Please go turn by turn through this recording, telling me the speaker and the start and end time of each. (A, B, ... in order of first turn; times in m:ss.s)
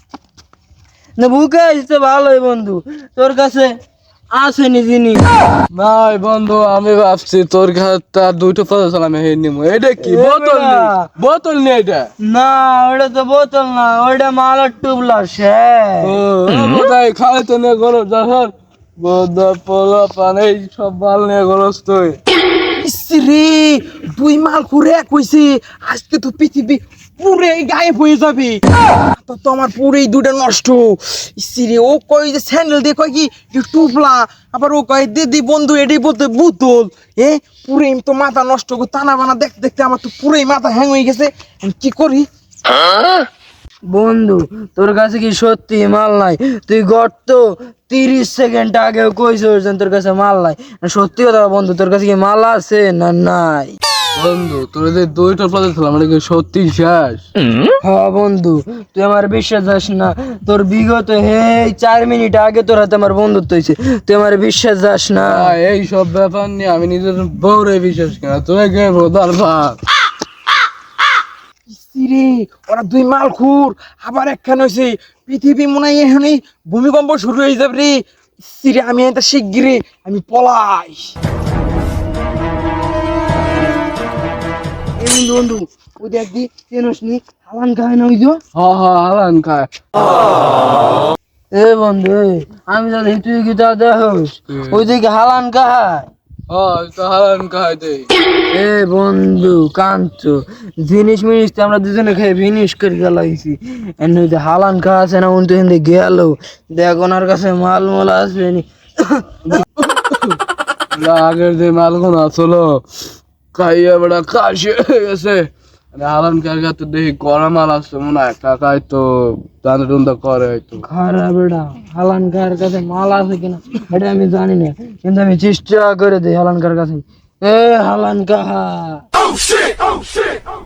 0:01.2-0:03.7 A
0:04.3-0:05.2 A
0:05.7-0:12.1 B
0:10.0-0:11.0 A
0:12.3-0:16.1 A
0:16.0-0:22.2 B
0:22.8-0:28.6 C
0:29.2-0:42.2 C
0:43.9-0:53.8 A
0:54.2-0:57.3 B
0:57.8-1:05.5 A
1:05.2-1:09.8 B
1:11.7-1:21.1 C
1:25.0-1:28.4 A
1:28.5-1:29.7 B
1:31.5-1:36.1 A
1:36.5-1:38.1 B
1:38.5-1:49.3 A
1:49.5-1:50.4 B
1:50.9-1:52.8 B
1:53.5-2:00.8 B
2:00.8-2:09.0 A